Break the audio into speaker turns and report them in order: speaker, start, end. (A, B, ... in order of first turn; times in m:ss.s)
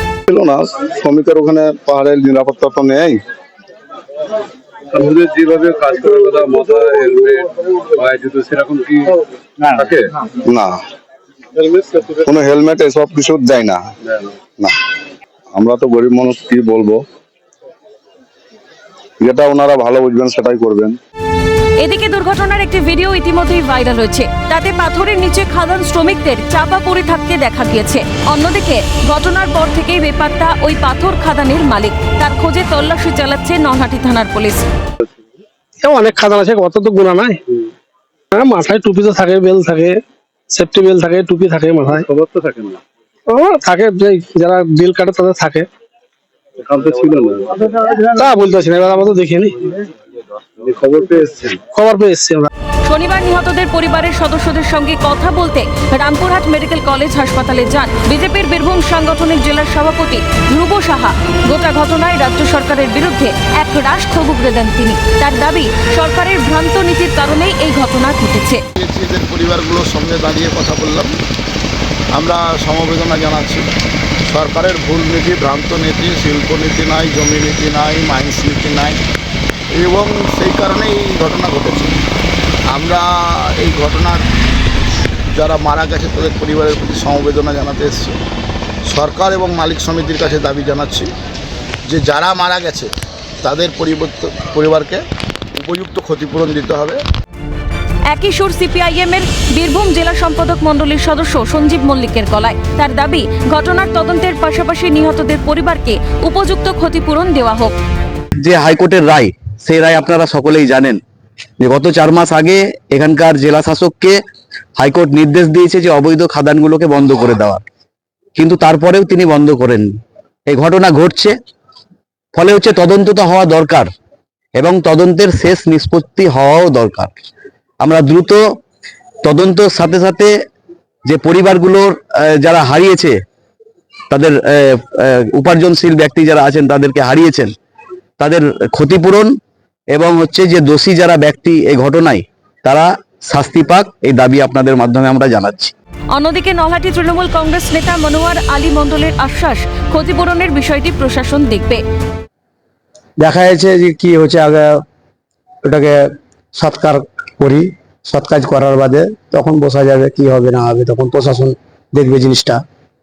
0:00.3-0:03.2 A
0:04.9-0:10.1 B
0:10.5-0:10.8 A
0:12.2-0:13.8 A
0:15.5-0:17.0 A
0:19.2-0:21.0 A
0:21.8-0:34.7 C
0:35.8-0:37.4 D
0:38.3-0:42.1 D
0:42.0-0:42.8 B
0:43.3-0:45.7 D
0:46.6-0:47.6 B
0:47.8-0:49.7 D
0:50.6-0:51.6 B
0:51.7-0:52.5 D
0:52.8-1:08.6 C
1:08.8-1:11.2 E
1:12.1-1:13.6 E
1:14.3-1:19.0 E
1:19.7-1:22.0 E
1:22.7-1:24.2 E
1:25.3-1:28.2 E
1:28.9-1:31.1 E
1:31.9-1:32.9 E
1:33.4-1:35.0 E
1:35.6-1:37.0 E
1:38.1-1:47.7 C
1:48.4-1:51.0 F
1:51.6-1:54.2 F
1:54.8-1:57.6 F
1:58.4-1:59.9 F
2:00.5-2:01.4 F
2:02.3-2:03.9 F
2:04.6-2:07.1 F
2:07.8-2:08.4 F
2:09.2-2:10.3 F
2:11.1-2:13.2 F
2:14.1-2:17.5 F
2:18.2-2:19.4 F
2:19.9-2:25.7 F
2:26.1-2:31.8 C
2:33.2-2:34.8 G
2:35.6-2:36.0 G
2:36.6-2:42.6 G